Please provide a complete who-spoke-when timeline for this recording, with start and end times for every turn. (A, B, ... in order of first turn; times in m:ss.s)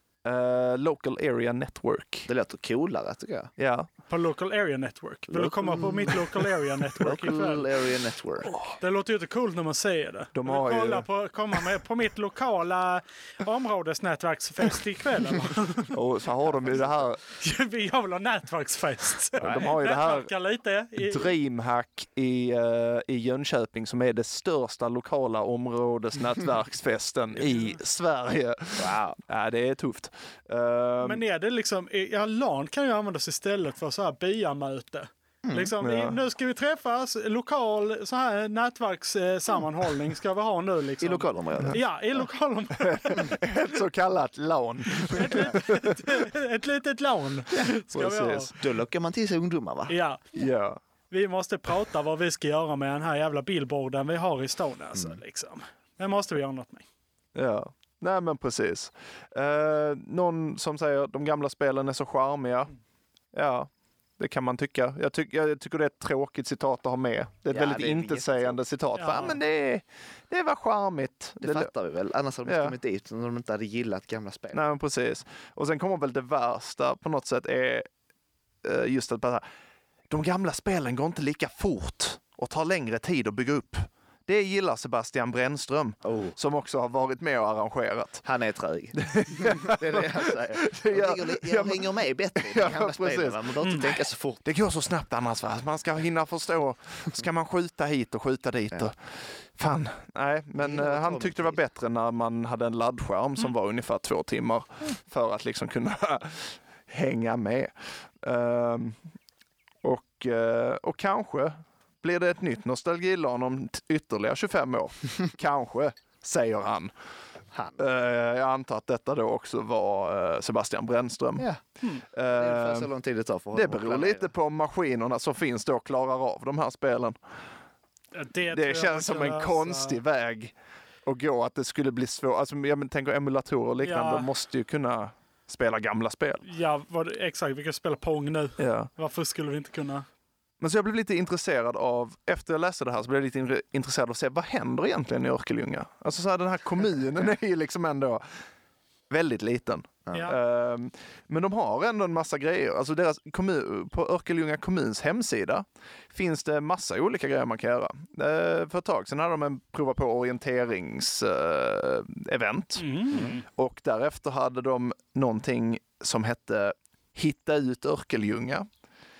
0:00.2-0:02.3 A
0:02.3-0:03.5 B
0:03.6-0:03.9 A
0:04.1-0:07.7 C
0:05.4-0:06.2 A
0:05.5-0:06.2 B
0:07.0-0:08.6 B
0:08.4-0:08.8 A
0:08.8-0:15.9 C
0:10.3-0:11.0 A
0:15.9-0:17.2 A
0:17.4-0:21.3 C
0:19.4-0:20.3 A
0:21.0-0:31.2 A
0:28.8-0:29.2 B
0:31.0-0:43.4 C
0:35.4-0:35.7 B
0:35.8-0:36.2 A
0:41.0-0:41.8 B
0:42.8-0:46.0 A
0:44.9-0:48.5 C
0:47.9-0:48.6 A
0:48.6-0:50.0 B
0:49.9-0:50.3 C
0:50.3-0:50.8 A
0:51.1-0:56.8 C
0:57.3-1:02.7 A
1:03.3-1:11.7 A
1:07.5-1:08.6 B
1:09.0-1:09.4 C
1:11.4-1:14.6 B
1:12.4-1:12.7 A
1:14.5-1:17.9 A
1:18.6-1:19.4 A
1:20.1-1:28.2 A
1:26.0-1:26.4 B
1:28.2-1:34.4 B
1:29.0-1:33.8 A
1:33.6-1:33.9 C
1:34.4-1:49.0 A
1:40.6-1:41.6 B
1:49.8-1:56.9 A
1:57.5-1:57.8 B
1:57.8-2:01.5 A
2:02.1-2:02.9 A
2:02.3-2:04.3 B
2:03.5-2:07.2 A
2:08.1-2:10.0 C
2:08.5-2:10.5 A
2:11.0-2:16.4 A
2:13.8-2:14.3 C
2:16.4-2:20.0 C
2:18.6-2:18.9 A
2:20.6-2:28.2 A
2:29.1-2:48.7 A
2:42.8-2:43.4 C
2:43.1-2:43.4 B